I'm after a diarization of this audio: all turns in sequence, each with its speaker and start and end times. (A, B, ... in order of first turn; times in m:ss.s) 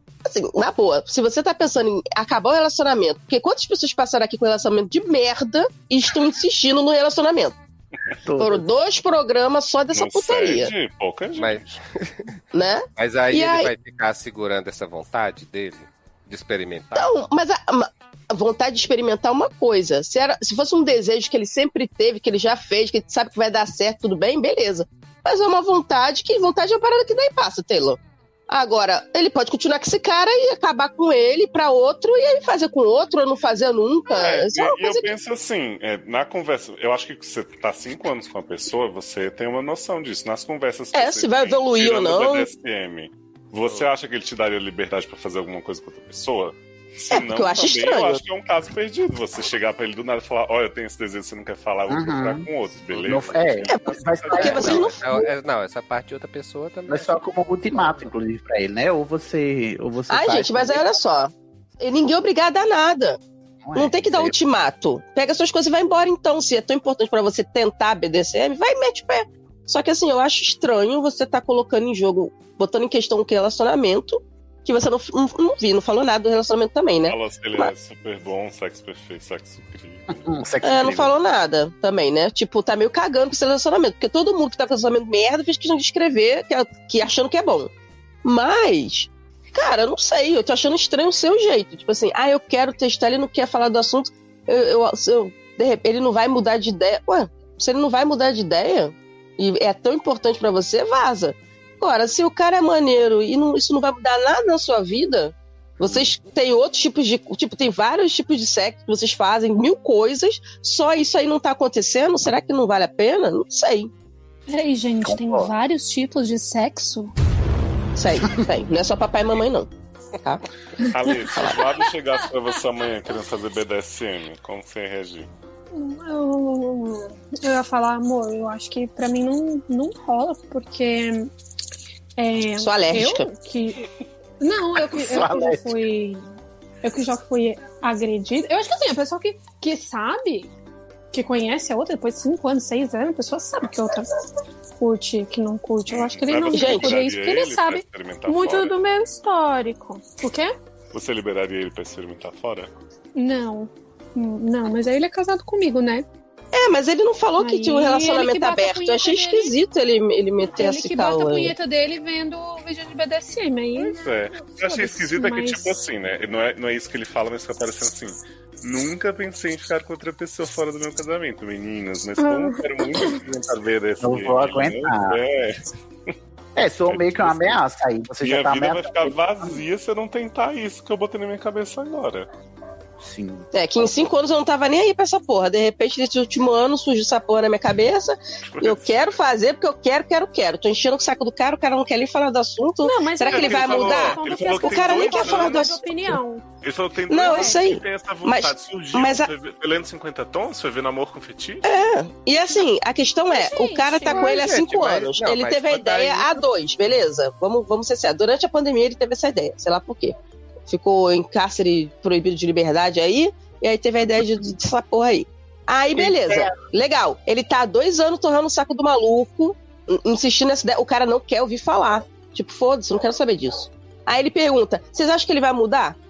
0:00.2-0:07.6 A
0:08.2-0:08.7 B
0:08.4-0:10.7 A
0:09.9-0:11.8 C
0:11.4-0:12.4 D
0:12.5-0:13.7 A
0:13.0-0:17.1 D
0:17.0-0:35.1 A
0:34.1-0:55.0 C
0:40.9-0:42.5 A
0:47.1-0:48.2 A
0:51.9-0:52.5 B
0:53.0-0:55.2 B
0:53.7-0:55.2 A
0:54.3-0:57.1 D
0:56.9-1:00.8 B
0:57.7-0:58.1 D
1:00.1-1:03.2 A
1:03.6-1:04.4 B
1:03.8-1:17.7 A
1:17.0-1:20.3 C
1:20.1-1:21.1 B
1:20.6-1:27.7 A
1:28.2-1:53.9 A
1:54.5-1:57.1 E
1:55.0-1:55.5 B
1:58.0-1:59.7 A
2:00.9-2:05.3 C
2:05.7-2:11.3 E
2:12.2-2:13.9 E
2:12.6-2:13.3 A
2:14.4-2:16.3 E
2:14.8-2:15.8 B
2:16.8-2:20.5 E
2:21.1-2:24.1 E
2:24.8-2:30.5 E
2:25.9-2:28.8 C
2:26.5-2:27.0 A
2:30.9-2:32.7 C
2:33.2-2:36.1 E
2:36.5-2:41.5 A
2:37.4-2:39.6 E
2:40.4-2:44.0 E
2:43.8-2:55.6 C
2:44.6-2:45.8 E
2:52.2-2:53.2 E
2:54.0-2:55.2 B
2:56.6-2:59.6 B
2:56.9-2:57.6 C
2:58.2-3:02.3 C
3:03.0-3:04.1 B
3:03.5-3:16.0 A
3:08.4-3:09.2 C
3:12.8-3:16.4 E
3:13.3-3:15.8 C
3:16.6-3:21.8 C
3:17.1-3:19.3 A
3:17.2-3:17.6 E
3:21.7-3:30.2 A
3:23.3-3:24.5 E
3:24.1-3:26.4 D
3:30.7-3:46.0 A
3:36.0-3:36.6 B